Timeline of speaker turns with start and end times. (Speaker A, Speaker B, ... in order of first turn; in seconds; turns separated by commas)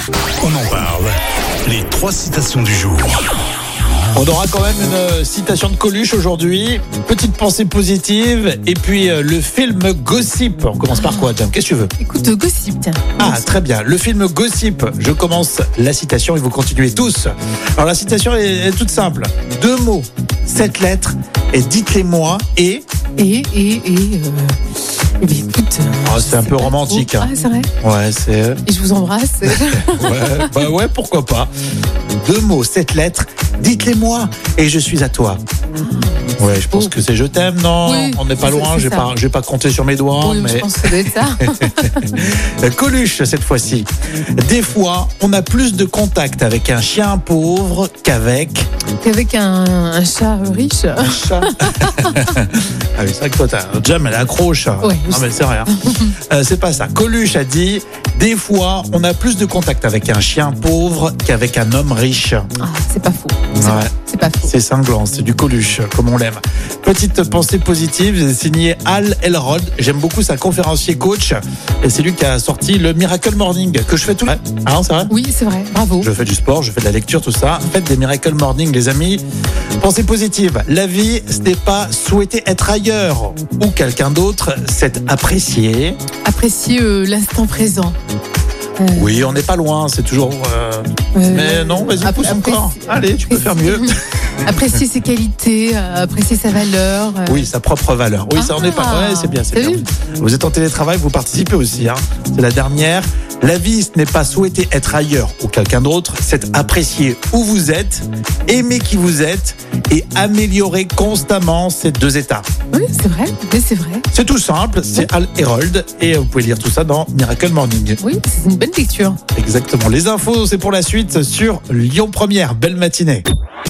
Speaker A: 0.4-3.1, Speaker B: 4.1-11.9, Speaker C: 10.9-11.3, Speaker C: 12.0-13.5, Speaker B: 13.2-22.8, Speaker C: 23.2-24.6, Speaker C: 25.2-27.7, Speaker B: 26.0-28.6, Speaker C: 28.6-30.6, Speaker B: 29.9-31.5, Speaker B: 32.1-35.4, Speaker C: 35.7-36.9, Speaker B: 36.4-48.7, Speaker C: 37.8-39.1, Speaker C: 40.2-42.2, Speaker C: 49.0-52.3, Speaker B: 51.0-55.7, Speaker C: 54.8-56.1, Speaker B: 56.3-62.4, Speaker C: 62.6-64.5, Speaker B: 63.6-63.9, Speaker B: 64.4-75.1, Speaker C: 75.1-76.1, Speaker B: 76.0-79.2, Speaker B: 79.8-86.0, Speaker C: 86.2-88.0, Speaker C: 88.8-89.4, Speaker B: 88.9-94.0, Speaker C: 91.1-97.5, Speaker B: 94.5-94.8, Speaker B: 97.2-112.5, Speaker C: 98.3-99.9, Speaker C: 112.7-114.0, Speaker B: 114.1-118.0, Speaker C: 118.0-119.2, Speaker B: 119.3-123.2